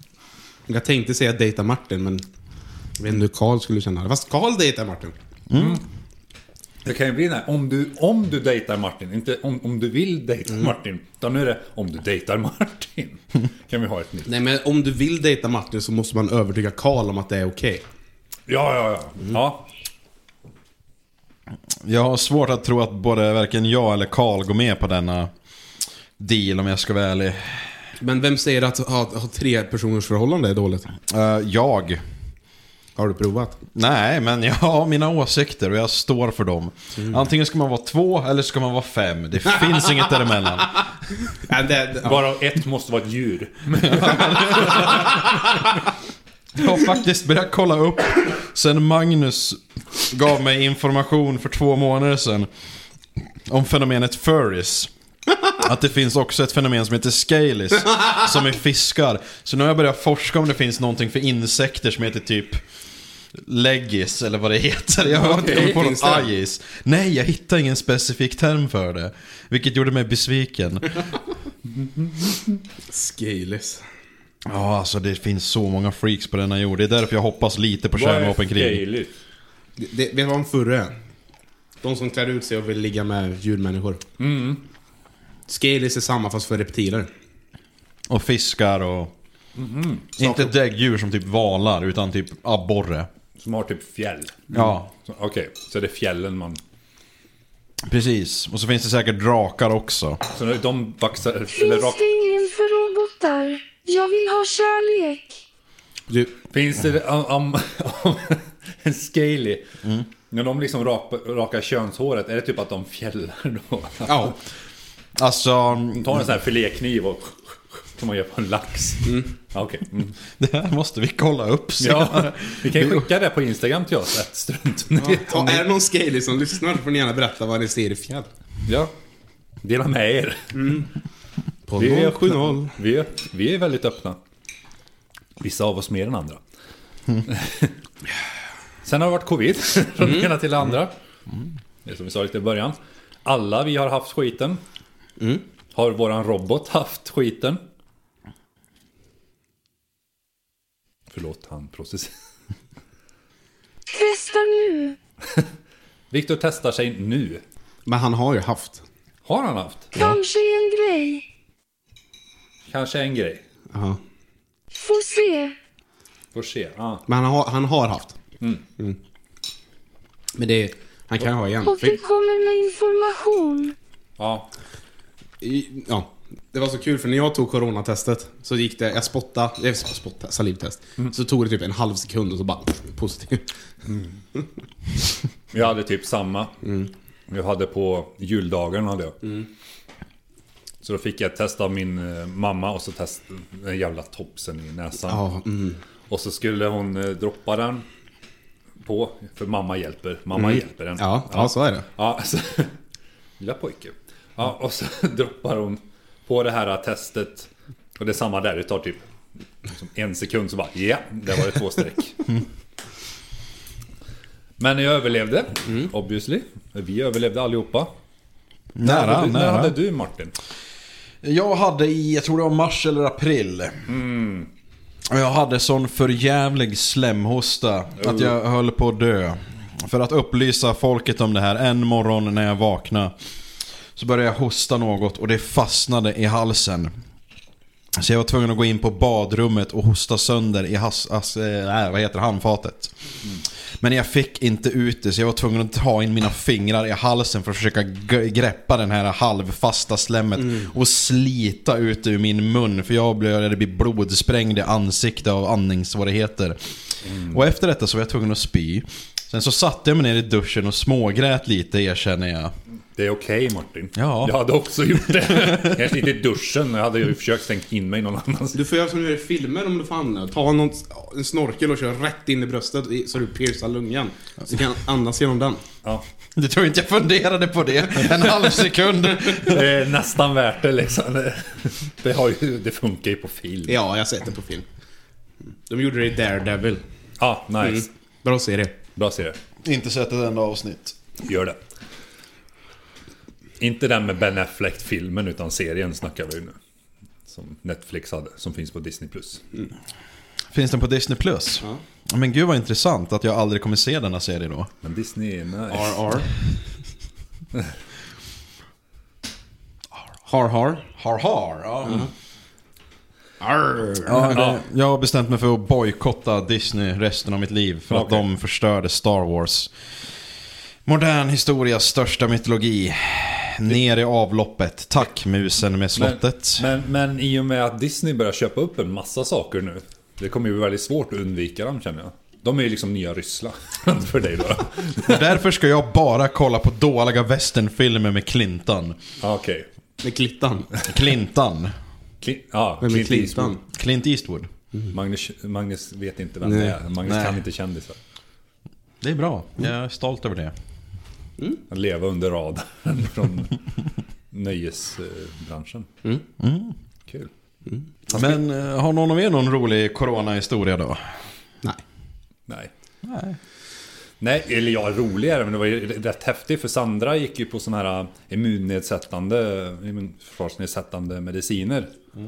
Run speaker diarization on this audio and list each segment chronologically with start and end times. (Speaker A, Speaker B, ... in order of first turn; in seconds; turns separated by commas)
Speaker A: 0.7-2.2, Speaker A: 3.0-5.1, Speaker B: 5.5-5.8, Speaker C: 5.5-5.8, Speaker C: 6.8-14.3, Speaker A: 14.3-17.8, Speaker C: 18.5-19.6, Speaker B: 21.8-25.3, Speaker B: 26.2-27.7, Speaker A: 28.0-30.9, Speaker B: 31.1-32.0, Speaker A: 33.0-33.6, Speaker B: 33.8-40.9, Speaker A: 41.4-42.2, Speaker C: 42.0-45.2, Speaker B: 43.8-45.1, Speaker B: 46.6-52.5, Speaker B: 53.5-54.9, Speaker B: 55.6-62.6, Speaker B: 63.4-71.1, Speaker A: 65.1-66.2, Speaker C: 71.8-72.4, Speaker A: 72.9-73.8, Speaker B: 74.5-78.8, Speaker C: 78.0-79.1, Speaker A: 79.8-81.0, Speaker A: 81.8-84.0, Speaker C: 84.2-84.6, Speaker A: 85.5-87.1, Speaker B: 88.1-89.1, Speaker C: 89.6-90.1, Speaker B: 90.2-93.1, Speaker C: 93.4-96.6, Speaker B: 94.5-94.9, Speaker B: 97.9-100.2, Speaker C: 100.3-102.0, Speaker D: 101.5-105.4, Speaker C: 106.5-109.6, Speaker C: 110.3-114.4, Speaker A: 114.1-114.4, Speaker B: 115.2-116.2, Speaker C: 115.9-117.3, Speaker C: 118.0-120.2, Speaker B: 120.4-123.1, Speaker C: 121.8-125.7, Speaker A: 125.0-128.3, Speaker C: 128.7-128.9, Speaker C: 129.6-130.8, Speaker A: 130.5-130.9, Speaker A: 131.7-132.8, Speaker C: 131.8-134.2, Speaker C: 135.4-136.4, Speaker C: 137.2-137.7, Speaker C: 138.8-140.9, Speaker A: 140.0-140.3, Speaker C: 141.8-144.6, Speaker A: 145.2-145.4, Speaker C: 145.7-147.6, Speaker C: 151.1-152.1, Speaker D: 153.9-155.0, Speaker C: 156.1-157.4, Speaker A: 157.9-158.8, Speaker C: 159.2-159.9, Speaker D: 159.9-161.2, Speaker C: 162.7-163.4, Speaker A: 163.7-164.0, Speaker D: 164.7-165.6, Speaker C: 166.3-167.1, Speaker A: 167.1-168.2, Speaker A: 170.3-172.0, Speaker D: 171.6-173.8, Speaker C: 174.2-174.5, Speaker A: 175.4-183.5, Speaker C: 185.5-186.6, Speaker A: 186.6-186.9, Speaker C: 187.3-189.2, Speaker C: 190.8-195.2, Speaker A: 195.1-195.8, Speaker C: 196.1-197.8, Speaker C: 198.8-202.7, Speaker A: 200.4-201.9, Speaker C: 203.4-209.0, Speaker C: 209.7-212.3, Speaker C: 214.6-217.9, Speaker B: 218.8-219.8, Speaker C: 218.8-220.3, Speaker B: 221.2-223.9, Speaker C: 223.9-224.5, Speaker B: 225.1-233.1, Speaker C: 228.0-228.3, Speaker B: 234.0-236.9, Speaker B: 238.0-242.9, Speaker B: 243.8-256.6, Speaker B: 257.3-262.5, Speaker C: 263.0-268.6, Speaker B: 264.0-264.4, Speaker B: 265.2-265.9, Speaker A: 268.5-275.6, Speaker B: 276.4-279.7, Speaker C: 279.4-283.8, Speaker A: 283.7-284.7, Speaker A: 285.7-286.8, Speaker C: 287.2-287.9, Speaker A: 287.6-288.8, Speaker C: 289.0-289.4, Speaker B: 289.6-291.0, Speaker C: 291.2-291.6, Speaker C: 293.6-296.6, Speaker C: 297.3-299.4, Speaker B: 300.5-304.7, Speaker C: 304.8-306.1, Speaker A: 305.7-306.3, Speaker A: 310.2-310.9, Speaker B: 311.0-312.1, Speaker A: 313.4-314.4, Speaker B: 314.1-319.7, Speaker C: 314.3-314.6, Speaker C: 317.9-318.2, Speaker B: 320.9-326.6, Speaker C: 326.0-335.3, Speaker B: 335.1-339.0, Speaker C: 339.2-339.7, Speaker A: 340.0-340.7, Speaker B: 340.9-341.7, Speaker C: 342.2-343.6, Speaker A: 342.8-343.6, Speaker B: 343.7-344.5, Speaker C: 344.9-348.0, Speaker A: 346.4-346.8, Speaker B: 347.1-347.4, Speaker B: 349.0-350.5, Speaker C: 351.7-353.6, Speaker C: 354.3-355.9, Speaker B: 356.4-356.8, Speaker B: 358.1-361.0, Speaker B: 363.0-363.4, Speaker C: 364.2-371.9